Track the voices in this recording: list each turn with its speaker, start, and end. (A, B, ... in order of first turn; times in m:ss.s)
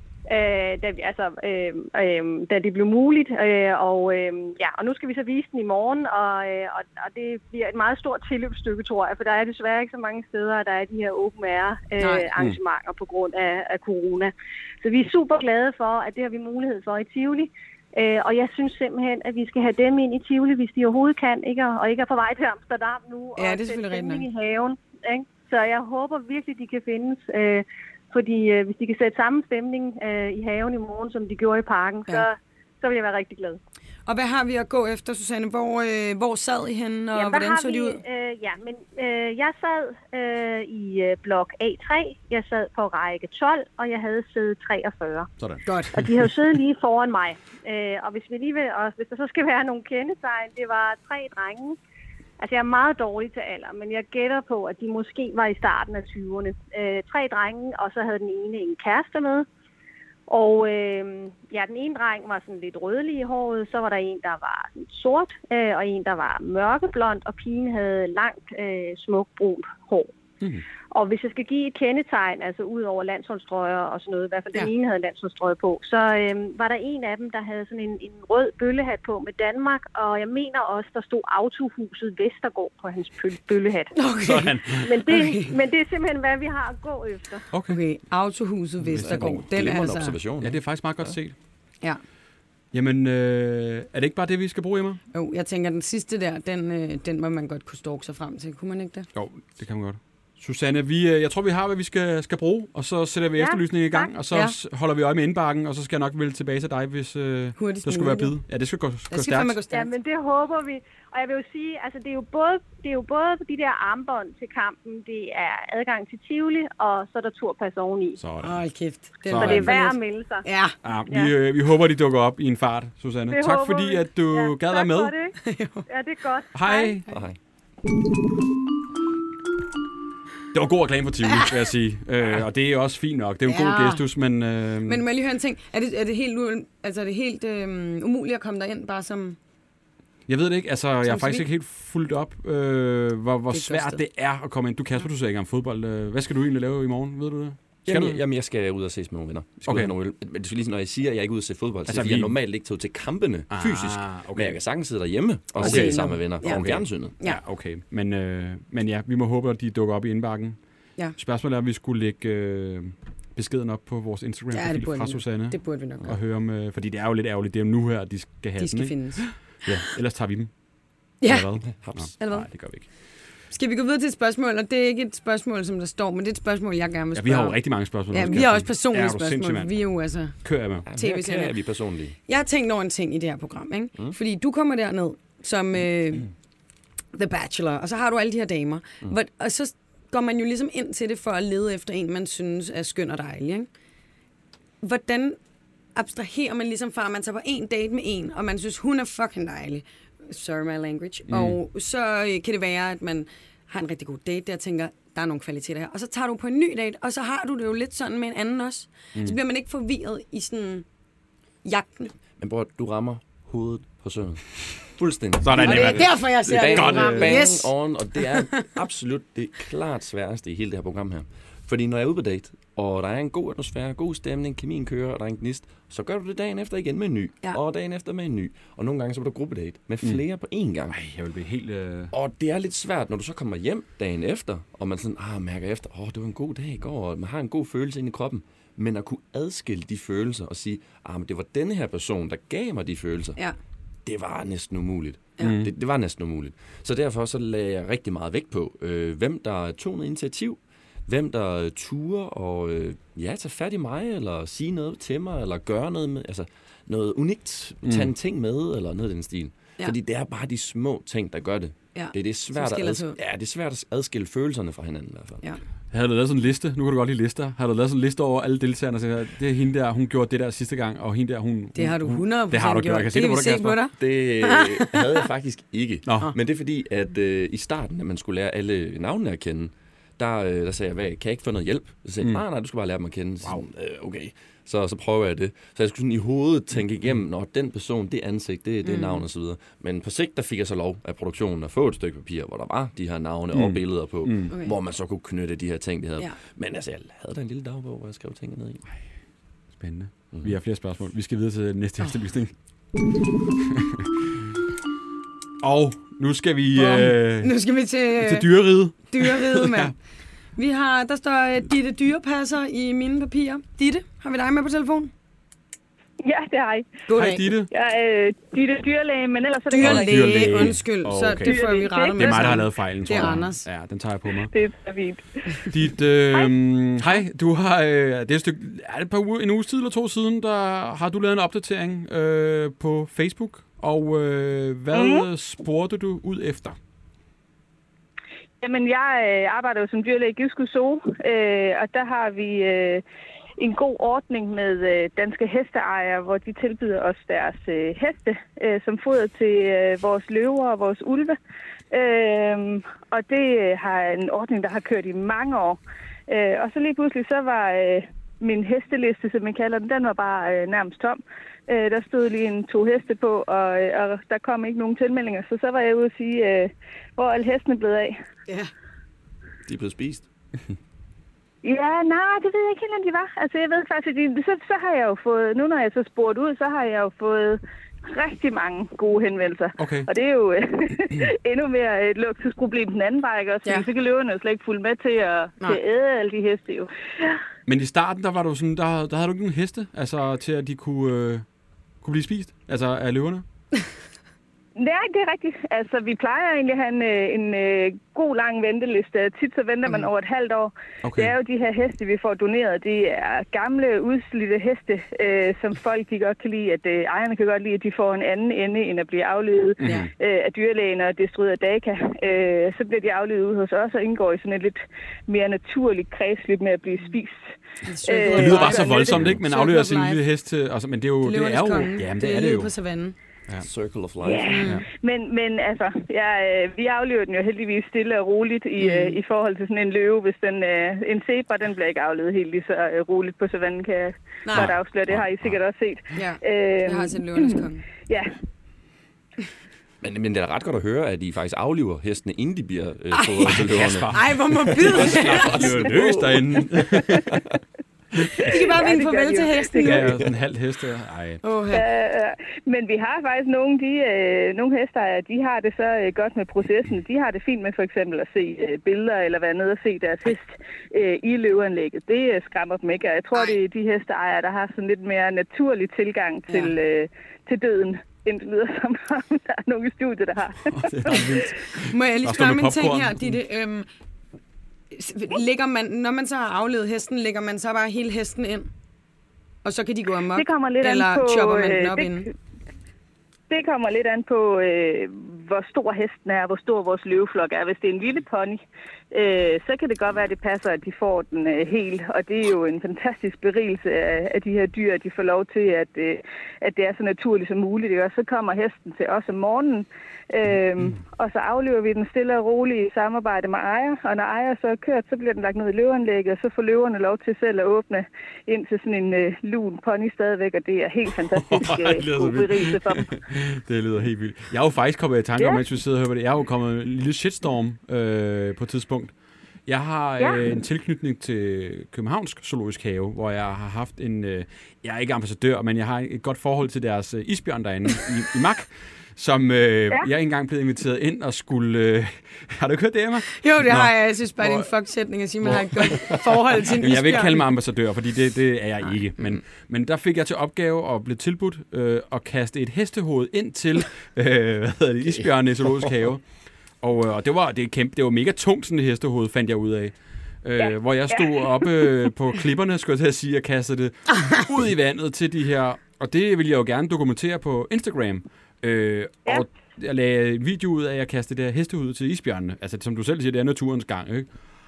0:00.3-0:33.6 A
0:12.0-0:12.3 B
0:23.4-0:24.2 B
0:34.0-0:38.0 B
0:37.1-0:45.3 A
0:45.4-0:46.1 C
0:45.7-0:45.9 B
0:45.9-0:51.8 A
0:52.4-0:59.5 A
1:00.3-1:10.1 A
1:10.9-1:24.0 A
1:23.9-1:25.5 B
1:24.2-1:24.9 C
1:24.8-1:27.5 A
1:27.5-1:27.8 C
1:27.7-1:30.2 B
1:28.9-1:29.4 C
1:29.0-1:31.2 D
1:30.4-1:31.4 C
1:32.7-1:35.0 C
1:35.1-1:39.1 B
1:39.1-1:49.6 C
1:43.4-1:44.1 A
1:47.6-1:48.4 B
1:49.1-1:49.9 B
1:49.7-1:58.2 A
1:58.2-1:58.6 C
1:58.4-2:00.7 B
1:59.3-1:59.8 C
1:59.4-2:00.4 A
2:00.8-2:05.1 C
2:01.1-2:01.3 A
2:03.3-2:07.0 A
2:05.4-2:05.8 B
2:06.5-2:07.0 C
2:07.1-2:07.4 D
2:10.5-2:15.0 C
2:13.4-2:14.0 B
2:14.8-2:19.4 B
2:20.3-2:28.2 C
2:21.0-2:21.5 B
2:23.5-2:24.0 B
2:27.8-2:37.2 D
2:29.6-2:29.9 C
2:31.9-2:32.3 C
2:33.5-2:34.6 C
2:35.6-2:40.6 C
2:35.6-2:37.4 B
2:41.1-2:50.5 C
2:44.5-2:46.1 B
2:48.6-2:49.3 B
2:51.2-2:52.5 B
2:51.2-2:52.9 C
2:51.8-2:52.1 D
2:53.5-3:01.5 B
2:57.1-3:00.9 C
3:00.8-3:02.2 D
3:02.3-3:06.3 B
3:07.1-3:13.7 B
3:14.8-3:15.4 B
3:15.9-3:30.8 B
3:21.3-3:21.6 C
3:31.6-3:32.1 B
3:32.4-3:51.0 D
3:35.4-3:37.4 C
3:35.6-3:37.7 B
3:38.3-3:38.6 B
3:50.9-3:52.1 C
3:52.1-4:03.4 D
4:04.0-4:25.4 D
4:05.4-4:05.7 C
4:17.8-4:18.1 C
4:21.9-4:23.2 B
4:25.9-4:33.9 C
4:31.7-4:35.0 B
4:34.0-4:58.8 D
4:36.0-4:36.3 C
4:48.8-4:49.2 B
4:53.5-4:54.5 C
4:54.5-4:54.7 B
4:59.7-5:02.5 C
5:03.8-5:04.0 C
5:05.6-5:07.6 C
5:06.7-5:09.9 B
5:08.2-5:09.9 C
5:10.6-5:15.1 B
5:16.2-5:17.0 E
5:17.1-5:17.5 B
5:17.1-5:17.7 C
5:17.7-5:20.6 E
5:19.7-5:23.6 B
5:19.8-5:21.6 C
5:21.4-5:22.7 E
5:22.1-5:24.5 C
5:24.4-5:25.7 E
5:25.7-5:36.8 C
5:34.9-5:35.3 E
5:38.6-5:43.0 E
5:43.6-5:51.4 E
5:51.9-6:08.2 E
6:09.7-6:10.3 D
6:11.6-6:27.4 E
6:19.8-6:20.1 C
6:27.7-6:31.4 C
6:32.0-6:33.4 C
6:34.8-6:59.2 E
6:41.0-6:41.3 C
6:49.8-6:50.1 C
6:57.8-7:00.2 B
6:58.3-7:02.7 C
7:01.2-7:03.1 B
7:03.6-7:04.6 D
7:04.2-7:18.4 E
7:04.5-7:04.8 B
7:08.8-7:09.2 B
7:14.4-7:14.7 B
7:14.5-7:15.5 C
7:16.1-7:17.8 B
7:20.0-7:24.1 D
7:23.1-7:23.6 B
7:23.5-7:27.4 C
7:24.1-7:25.8 B
7:24.7-7:27.0 D
7:28.2-7:28.5 C
7:28.4-7:30.1 E
7:28.4-7:30.1 B
7:29.8-7:31.4 C
7:31.4-7:31.8 B
7:31.7-7:51.5 E
7:46.5-7:46.7 B
7:50.7-7:53.4 C
7:51.9-7:53.9 B
7:54.9-7:58.7 B
7:59.6-8:02.3 B
8:00.3-8:02.3 E
8:03.5-8:33.1 E
8:31.3-8:39.1 C
8:39.6-8:54.7 C
8:40.2-8:40.4 E
8:53.4-8:57.4 B
8:55.4-9:06.2 C
9:06.8-9:24.3 C
9:10.6-9:11.9 E